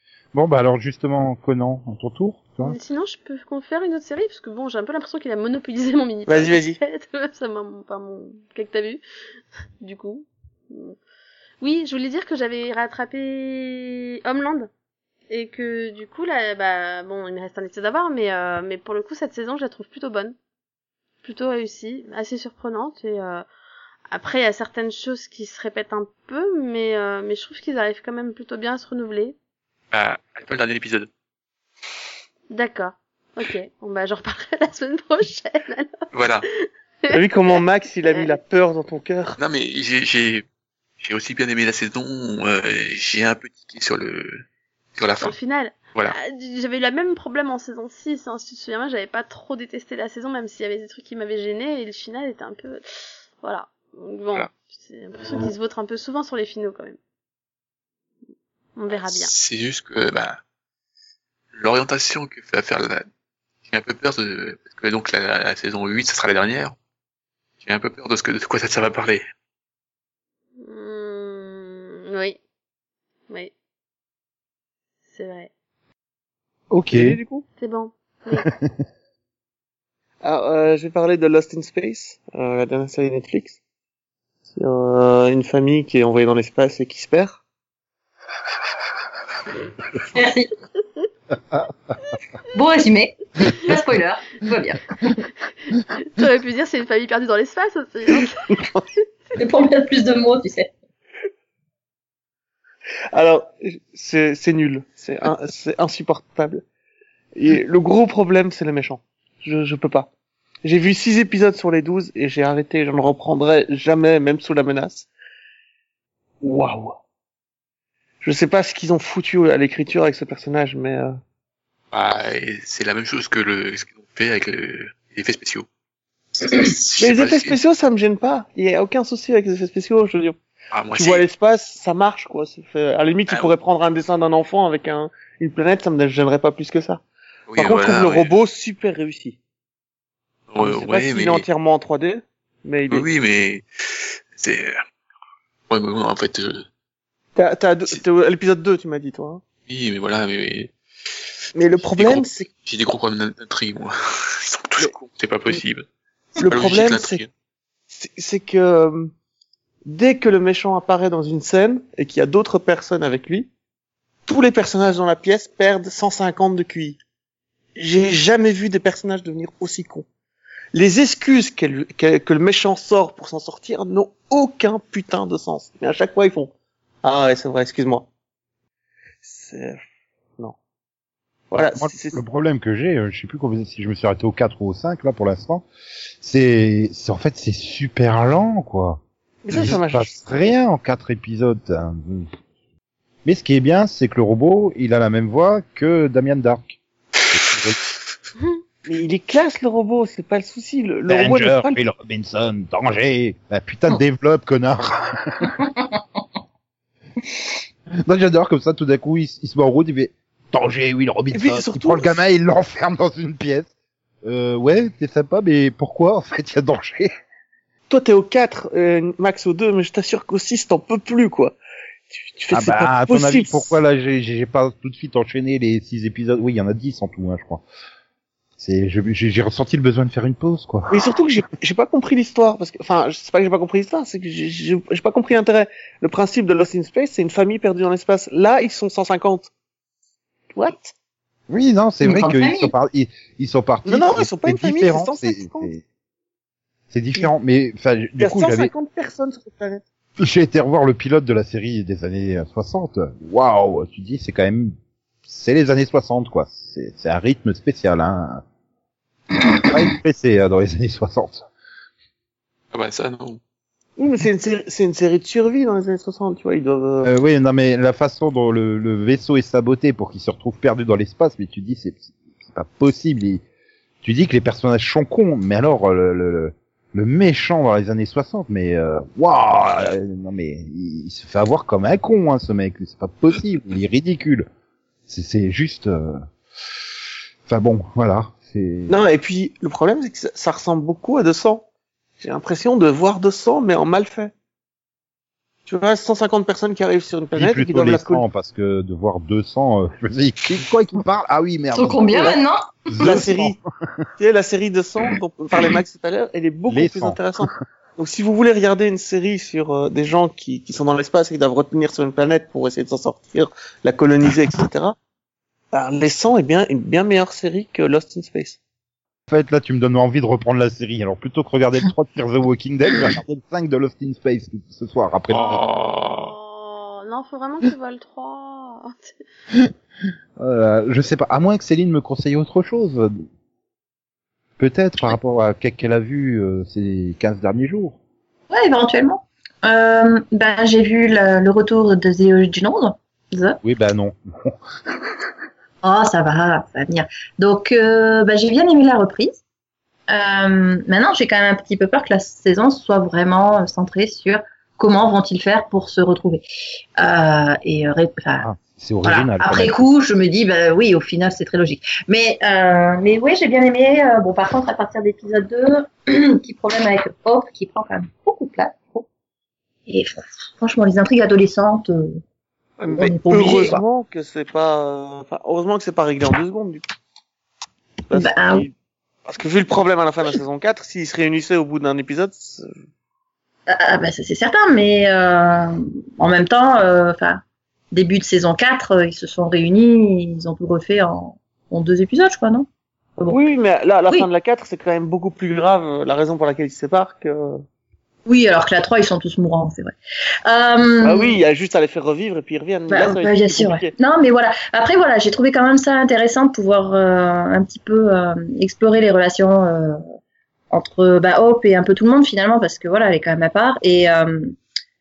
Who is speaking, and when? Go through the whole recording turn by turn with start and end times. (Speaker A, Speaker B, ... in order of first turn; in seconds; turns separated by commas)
Speaker A: 0.3-2.8, Speaker B: 2.6-9.0, Speaker C: 6.3-6.8, Speaker B: 9.8-11.0, Speaker B: 11.6-14.7, Speaker B: 15.3-20.4, Speaker B: 21.2-23.4, Speaker B: 24.1-29.4, Speaker D: 29.9-31.1, Speaker B: 32.5-36.0, Speaker D: 36.1-36.5, Speaker B: 36.6-37.2, Speaker C: 37.1-39.4, Speaker B: 38.1-38.3, Speaker D: 39.4-40.5, Speaker D: 41.0-44.4, Speaker D: 45.0-45.4, Speaker B: 45.2-57.0, Speaker B: 58.8-59.3, Speaker D: 59.1-60.4, Speaker D: 61.5-63.1, Speaker D: 63.7-66.8, Speaker D: 67.6-69.2, Speaker B: 70.6-72.4, Speaker B: 75.1-75.5, Speaker A: 76.7-77.2, Speaker C: 76.9-77.5, Speaker B: 77.6-78.5, Speaker A: 78.4-78.7, Speaker C: 80.2-83.6, Speaker C: 84.5-87.4, Speaker E: 90.1-90.5, Speaker E: 92.5-95.2, Speaker B: 95.9-98.4, Speaker C: 98.5-98.8, Speaker E: 99.4-100.7, Speaker C: 103.1-106.6, Speaker C: 107.3-110.1, Speaker C: 110.6-115.1, Speaker C: 116.4-117.0, Speaker C: 118.2-121.2, Speaker D: 121.9-125.7, Speaker D: 126.4-127.6, Speaker C: 127.0-130.4, Speaker D: 130.7-131.2, Speaker C: 130.9-137.0, Speaker D: 137.5-138.3, Speaker C: 137.6-139.4, Speaker D: 140.5-141.5, Speaker C: 140.6-143.1, Speaker D: 142.9-144.8, Speaker D: 145.7-146.7, Speaker C: 147.4-149.4, Speaker D: 149.7-150.7, Speaker C: 151.6-152.5, Speaker D: 151.8-155.9, Speaker C: 156.4-157.2, Speaker D: 156.4-157.3, Speaker C: 157.9-159.1, Speaker C: 159.8-163.5, Speaker C: 164.3-167.0, Speaker C: 167.8-170.1, Speaker C: 170.7-176.5, Speaker C: 177.0-178.1, Speaker C: 179.2-179.8, Speaker C: 181.5-182.2, Speaker A: 181.8-185.7, Speaker A: 186.2-189.0, Speaker C: 189.4-190.3, Speaker A: 189.5-192.3, Speaker A: 193.2-196.8, Speaker A: 197.3-197.8, Speaker C: 198.9-201.8, Speaker A: 201.1-205.6, Speaker A: 208.0-213.7, Speaker C: 211.3-212.2, Speaker A: 214.2-217.1, Speaker C: 217.9-221.6, Speaker C: 222.1-223.7, Speaker A: 222.5-227.7, Speaker A: 228.6-231.1, Speaker C: 230.9-239.5, Speaker C: 240.5-240.9, Speaker A: 241.5-245.8, Speaker E: 242.0-242.7, Speaker C: 243.9-245.7, Speaker A: 246.9-248.7, Speaker C: 248.2-249.8, Speaker A: 250.2-254.7, Speaker A: 255.3-258.4, Speaker A: 259.6-261.5, Speaker D: 262.7-263.4, Speaker C: 264.0-267.1, Speaker A: 267.0-273.4, Speaker A: 274.0-284.5, Speaker A: 285.1-286.2, Speaker A: 287.5-288.9, Speaker C: 288.9-291.6, Speaker C: 292.2-294.3, Speaker C: 295.7-298.2, Speaker A: 297.4-302.4, Speaker E: 301.7-302.9, Speaker A: 302.9-304.0, Speaker C: 303.0-303.6, Speaker C: 304.2-315.0, Speaker A: 306.7-307.5, Speaker C: 315.7-318.6, Speaker A: 319.3-325.6, Speaker D: 325.3-326.3, Speaker B: 325.7-329.2, Speaker A: 330.4-333.1, Speaker A: 334.6-338.0, Speaker E: 338.5-343.6, Speaker A: 343.6-344.6, Speaker E: 345.8-349.4, Speaker E: 350.1-356.4, Speaker E: 357.0-358.5, Speaker A: 358.4-359.9, Speaker E: 359.1-369.1, Speaker E: 369.9-372.2, Speaker C: 372.8-376.8, Speaker E: 372.9-373.8, Speaker C: 378.1-378.7, Speaker E: 378.1-378.7, Speaker C: 379.3-382.7, Speaker E: 383.7-392.7, Speaker C: 393.3-397.6, Speaker E: 398.3-401.4, Speaker C: 401.0-403.9, Speaker E: 402.9-410.0, Speaker E: 410.7-414.6